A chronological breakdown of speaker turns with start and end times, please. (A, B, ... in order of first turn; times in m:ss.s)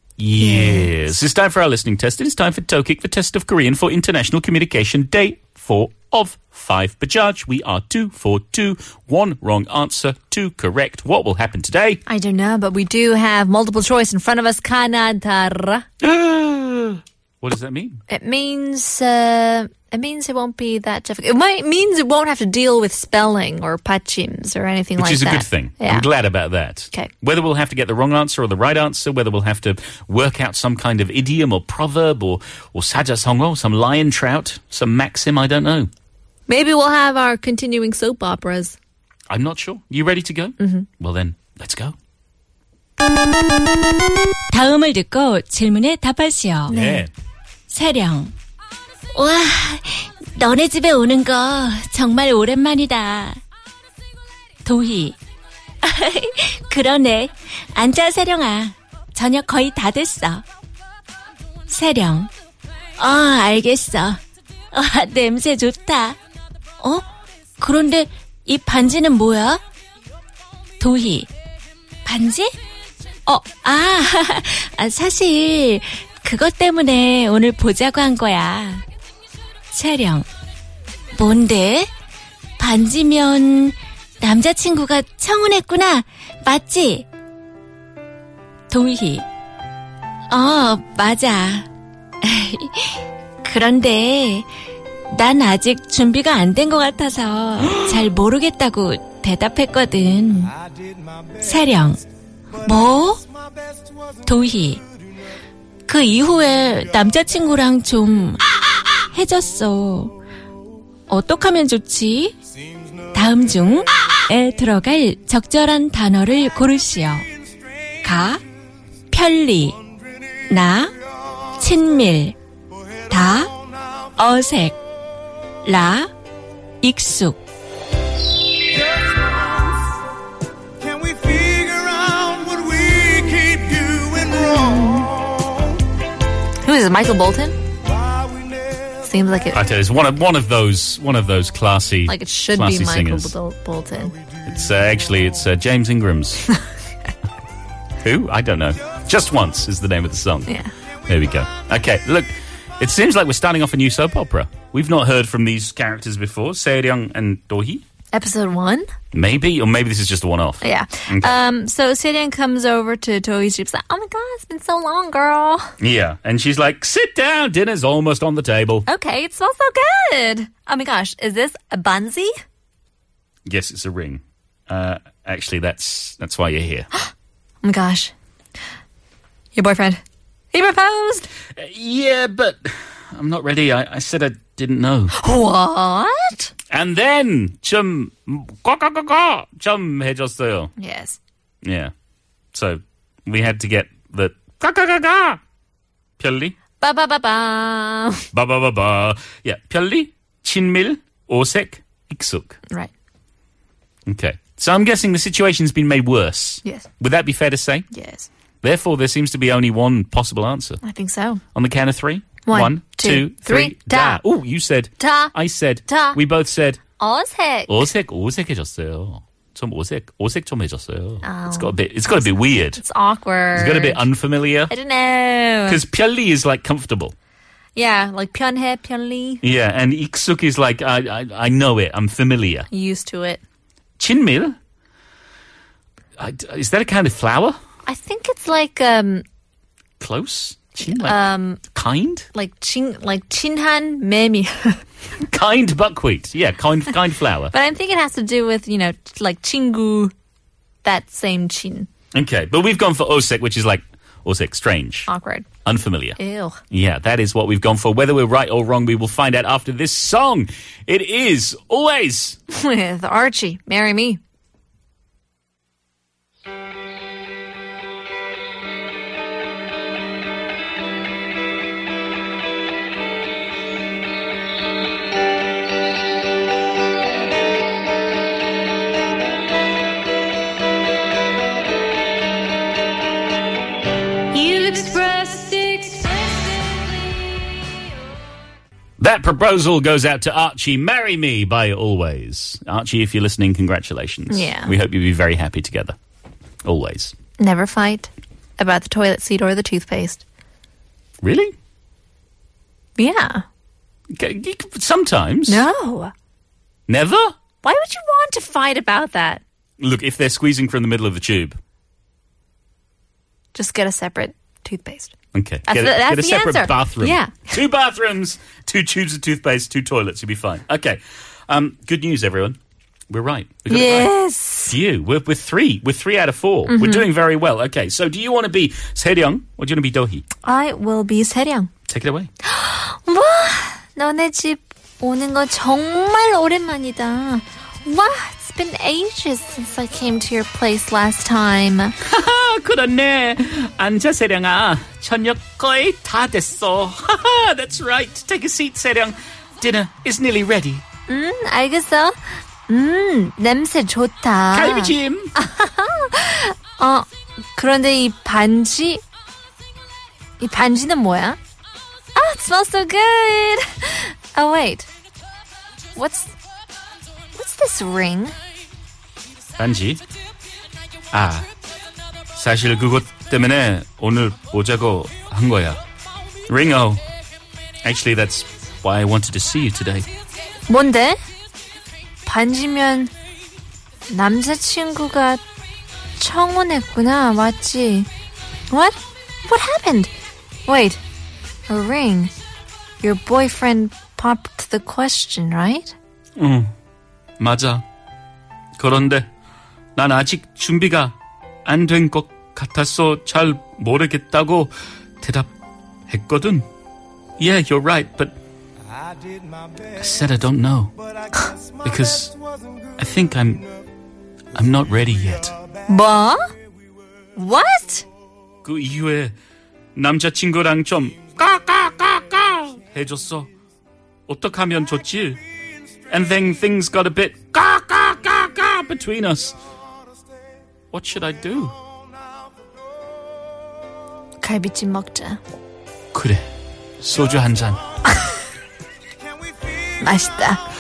0:00.2-0:12.0 A
0:00.4-0:00.9 B
0:12.0-0:15.8 B
0:16.0-0:18.0 A
0:18.1-0:26.1 B
0:25.0-0:35.9 A
0:36.5-0:38.8 B
0:39.3-0:41.9 A
0:40.6-0:40.9 B
0:44.5-0:46.7 C
0:46.7-0:47.1 A
0:46.7-0:47.1 B
0:47.7-0:48.3 C
0:49.1-0:53.4 C
0:54.6-0:55.2 C
0:55.8-1:00.4 C
1:01.7-1:02.3 C
1:03.0-1:04.2 C
1:04.7-1:06.2 C
1:06.8-1:07.0 C
1:07.6-1:09.6 C
1:10.8-1:11.3 C
1:12.0-1:12.5 C
1:13.3-1:18.8 C
1:19.7-1:20.3 C
1:21.1-1:21.9 C
1:22.6-1:27.0 C
1:28.7-1:29.2 C
1:30.3-1:31.7 C
1:32.2-1:34.5 C
1:35.1-1:40.5 C
1:41.4-1:42.0 C
1:42.5-1:43.2 C
1:44.2-1:44.8 C
1:45.9-1:48.4 C
1:49.1-1:50.1 C
1:51.1-1:52.4 C
1:53.1-1:57.3 C
1:58.0-1:58.4 C
1:59.1-1:59.8 C
2:00.5-2:00.9 C
2:01.6-2:02.4 C
2:03.1-2:03.5 C
2:04.2-2:04.8 C
2:05.6-2:06.1 C
2:06.8-2:07.4 C
2:10.8-2:14.2 D
2:14.2-2:15.1 B
2:16.6-2:17.6 B
2:19.0-2:19.6 B
2:19.5-2:23.4 A
2:22.1-2:24.2 B
2:24.4-2:26.4 A
2:28.0-2:30.5 A
2:30.5-2:30.7 B
2:31.1-2:37.8 A
2:38.1-2:38.9 B
2:39.1-2:41.4 A
2:40.6-2:45.7 B
2:45.8-2:48.8 A
2:48.9-2:52.3 B
2:53.4-2:56.9 A
2:57.6-2:58.1 B
2:59.5-3:00.0 B
3:00.5-3:01.3 B
3:01.6-3:05.1 A
3:05.1-3:06.5 B
3:06.7-3:10.7 A
3:10.8-3:11.2 B
3:11.6-3:11.9 A
3:12.5-3:15.4 A
3:16.2-3:16.6 A
3:16.8-3:18.2 B
3:18.3-3:22.6 A
3:24.1-3:27.8 A
3:27.9-3:28.3 B
3:28.6-3:30.8 A
3:30.8-3:31.4 B
3:31.5-3:36.8 A
3:32.4-3:34.2 B
3:35.0-3:35.3 B
3:35.9-3:36.2 B
3:37.0-3:37.9 B
3:37.7-3:42.8 A
3:41.2-3:41.8 B
3:42.7-3:44.0 B
3:43.5-3:44.7 A
3:44.7-3:45.8 B
3:45.7-3:47.1 A
3:47.7-3:49.4 B
3:49.4-3:52.7 A
3:52.7-3:53.4 B
3:54.0-3:54.6 A
3:56.2-3:57.6 A
3:57.8-3:59.2 B
4:00.0-4:02.3 A
4:00.8-4:01.6 B
4:02.3-4:04.8 B
4:05.3-4:07.5 A
4:07.5-4:10.1 B
4:10.8-4:11.9 B
4:12.1-4:15.1 A
4:15.1-4:15.5 B
4:15.6-4:16.2 A
4:16.2-4:16.6 B
4:16.7-4:22.4 A
4:22.5-4:24.2 B
4:49.0-4:56.0 A
4:54.3-4:54.7 B
4:56.6-4:57.1 A
4:57.4-5:00.2 B
5:01.2-5:01.5 A
5:03.0-5:03.4 B
5:04.1-5:05.6 A
5:05.5-5:06.1 B
5:06.9-5:07.3 A
5:07.6-5:09.4 B
5:09.8-5:11.6 A
5:13.5-5:15.1 B
5:15.3-5:22.6 A
5:15.6-5:17.6 B
5:23.1-5:24.1 A
5:23.7-5:24.8 B
5:24.7-5:30.2 A
5:26.7-5:27.1 B
5:30.4-5:31.7 B
5:31.9-5:32.3 A
5:32.4-5:41.9 B
5:42.0-5:50.8 A
5:51.1-5:59.0 B
5:54.5-5:55.3 A
6:00.4-6:01.4 B
6:02.1-6:04.9 B
6:05.9-6:06.3 B
6:07.3-6:08.4 B
6:09.6-6:10.0 A
6:11.1-6:11.5 A
6:12.3-6:15.8 A
6:16.5-6:17.0 A
6:17.8-6:20.0 A
6:20.7-6:21.2 B
6:22.2-6:23.1 B
6:24.1-6:25.4 B
6:26.2-6:28.1 B
6:28.7-6:30.1 B
6:30.6-6:31.0 B
6:31.7-6:32.3 B
6:33.0-6:35.9 B
6:36.4-6:36.7 A
6:37.4-6:37.8 A
6:38.8-6:39.3 A
6:40.0-6:41.1 A
6:41.6-6:45.5 A
6:46.1-6:46.6 A
6:47.4-6:48.4 A
6:50.0-6:50.9 A
6:51.8-6:52.4 A
6:53.0-6:53.6 A
6:54.5-6:55.6 A
6:55.9-6:56.4 B
6:57.4-6:58.0 B
6:58.6-6:59.3 A
6:59.9-7:03.5 A
7:04.3-7:05.4 A
7:06.1-7:09.6 A
7:10.9-7:11.7 A
7:14.4-7:15.4 B
7:16.1-7:16.4 A
7:17.0-7:17.8 A
7:20.0-7:20.6 B